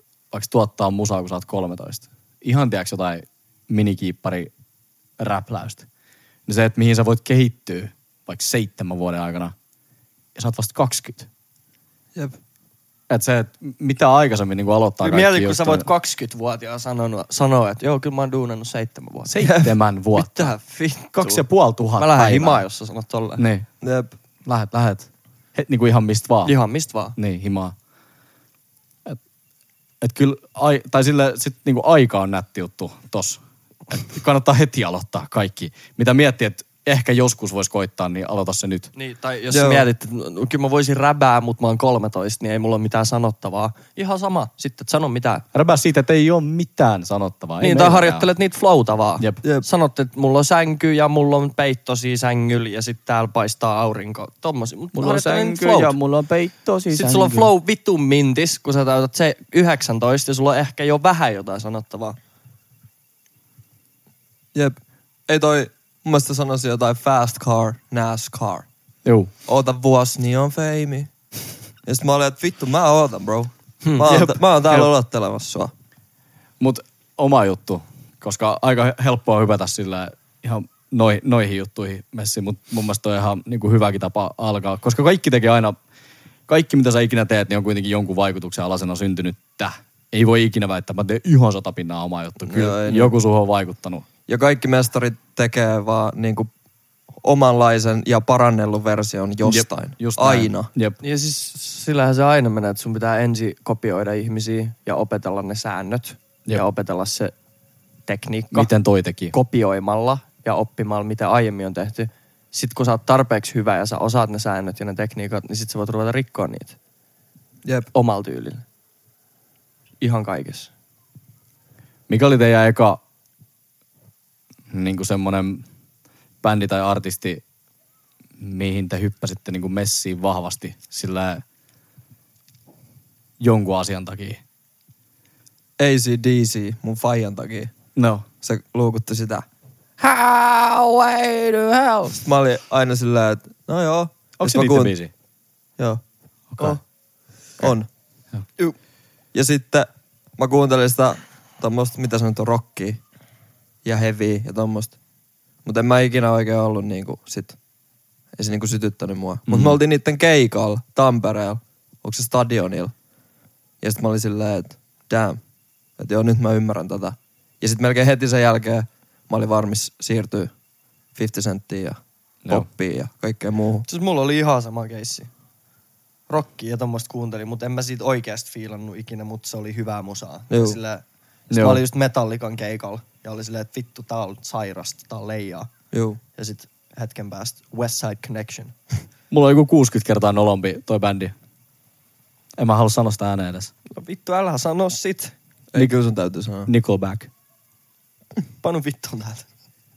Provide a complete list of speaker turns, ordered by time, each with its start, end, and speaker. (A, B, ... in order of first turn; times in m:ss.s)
0:00.3-0:04.5 A
0:05.2-0:05.8 A
0:06.5-0:09.5 A
0:10.4-0:11.3 A
0:13.1-0:15.9 A
0:15.0-0:21.4 B
0:19.3-0:20.5 A
0:21.1-0:22.6 A
0:22.0-0:23.4 B
0:23.4-0:23.7 A
0:23.8-0:24.1 C
0:24.4-0:26.5 A
0:26.4-0:27.2 B
0:27.2-0:27.7 A
0:30.0-0:38.9 A
0:38.9-0:45.4 B
0:39.5-0:39.8 C
0:45.5-0:48.3 A
0:47.6-0:56.0 B
0:54.9-0:57.5 A
0:56.9-1:02.2 B
1:05.3-1:08.6 C
1:09.0-1:09.3 A
1:09.5-1:11.1 C
1:11.8-1:15.7 C
1:14.0-1:14.9 A
1:16.6-1:25.8 A
1:26.5-1:34.0 A
1:32.4-1:33.1 C
1:34.3-1:36.5 C
1:37.2-1:40.7 C
1:39.4-1:41.0 A
1:41.0-1:47.3 B
1:48.1-1:48.7 B
1:48.5-1:49.3 A
1:49.3-1:56.8 B
1:57.9-1:58.6 B
2:00.0-2:00.7 B
2:02.1-2:03.0 A
2:04.7-2:05.6 A
2:06.4-2:07.4 A
2:08.4-2:11.4 A
2:13.4-2:14.4 A
2:15.8-2:17.7 C
2:18.0-2:18.2 A
2:18.4-2:19.4 C
2:20.0-2:22.1 A
2:22.2-2:24.9 C
2:24.4-2:25.1 A
2:26.5-2:26.8 A
2:27.6-2:27.9 C
2:29.3-2:33.0 C
2:33.8-2:34.9 C
2:35.6-2:37.6 C
2:38.4-2:42.9 C
2:39.5-2:39.8 A
2:43.8-2:45.4 C
2:46.0-2:50.5 C
2:51.1-2:53.9 C
2:53.9-2:55.3 B
2:56.3-3:05.7 B
3:00.5-3:00.8 C
3:01.5-3:01.8 A
3:05.9-3:06.2 C
3:06.4-3:08.7 B
3:09.3-3:11.3 A
3:12.6-3:13.7 A
3:13.9-3:15.3 B
3:15.7-3:16.7 C
3:16.6-3:17.3 A
3:18.6-3:19.4 B